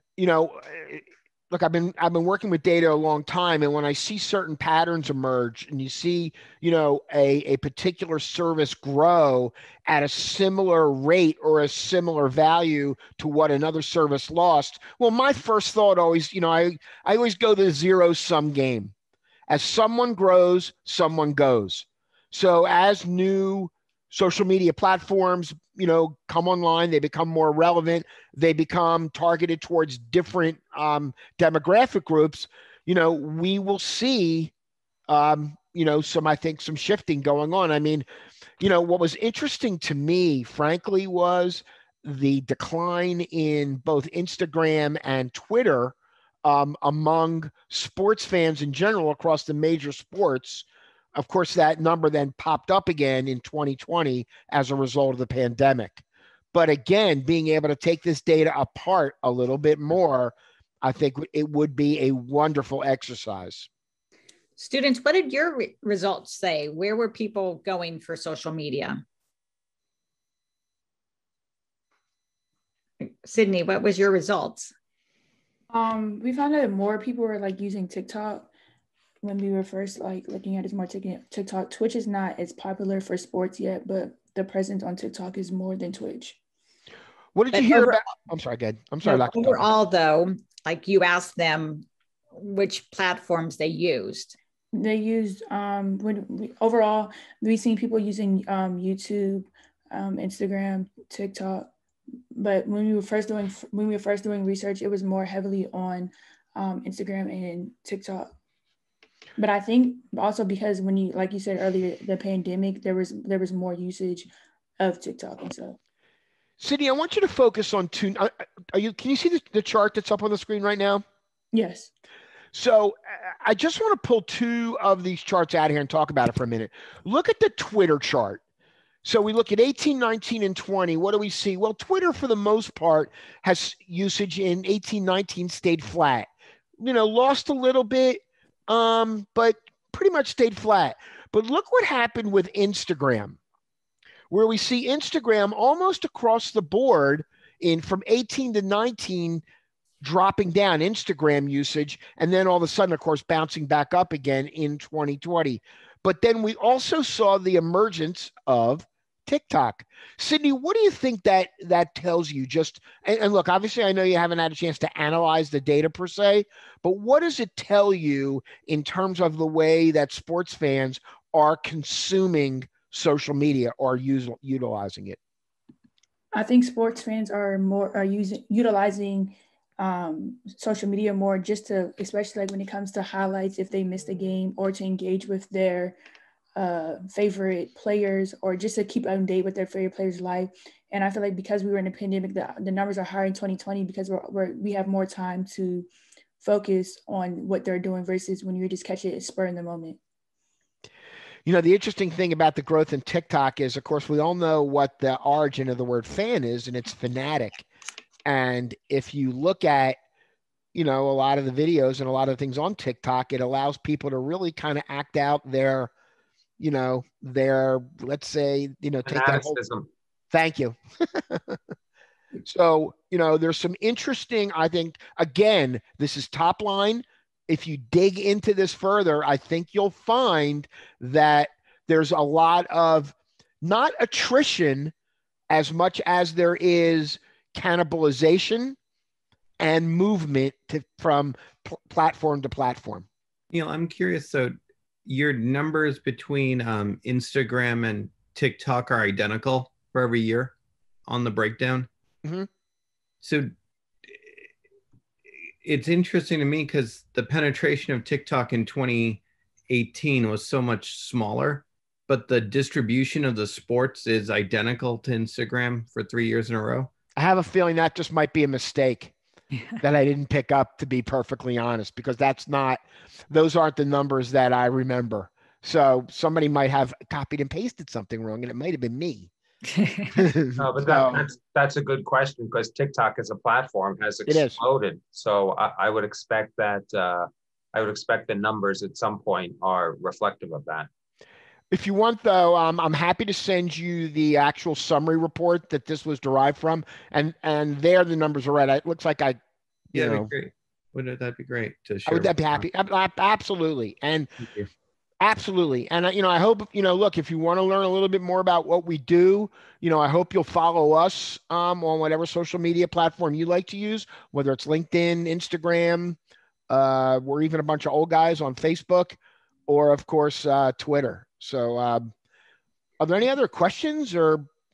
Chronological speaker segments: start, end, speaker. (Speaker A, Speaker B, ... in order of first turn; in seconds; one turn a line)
Speaker A: 0.2-18.9
Speaker A: 19.5-34.5
Speaker A: 35.1-38.0
Speaker A: 38.6-50.6
Speaker A: 51.1-63.7
Speaker B: 64.6-69.0
Speaker B: 73.0-74.7
Speaker C: 75.7-78.5
Speaker C: 79.2-86.4
Speaker A: 87.3-89.6
Speaker B: 87.5-88.0
Speaker B: 89.0-94.3
Speaker C: 94.7-101.7
Speaker C: 102.3-108.3
Speaker C: 109.4-115.8
Speaker A: 116.6-121.0
Speaker C: 121.5-121.9
Speaker A: 122.5-128.4
Speaker A: 129.0-136.3
Speaker A: 136.8-143.4
Speaker A: 144.3-149.4
Speaker A: 150.0-175.2
Speaker C: 176.3-185.9
Speaker C: 186.6-195.9
Speaker C: 196.4-200.0
Speaker A: 201.4-207.6
Speaker A: 208.2-210.0
Speaker A: 210.7-215.9
Speaker A: 216.6-219.6
Speaker D: 219.1-219.9
Speaker A: 220.3-221.6
Speaker A: 222.4-234.9
Speaker A: 235.5-238.8
Speaker A: 239.6-243.1
Speaker E: 243.5-250.5
Speaker E: 251.1-251.9
Speaker E: 253.2-253.5
Speaker E: 255.6-266.9
Speaker A: 267.2-269.1
Speaker A: 269.8-279.3
Speaker B: 279.7-280.1
Speaker A: 280.1-281.2
Speaker D: 280.6-290.9
Speaker A: 284.3-284.6
Speaker A: 291.7-299.4
Speaker A: 299.9-300.3
Speaker E: 299.9-302.6
Speaker A: 302.1-304.3
Speaker E: 304.4-304.7
Speaker A: 305.2-316.2
Speaker A: 316.7-319.2
Speaker A: 319.7-322.1
Speaker A: 323.0-324.4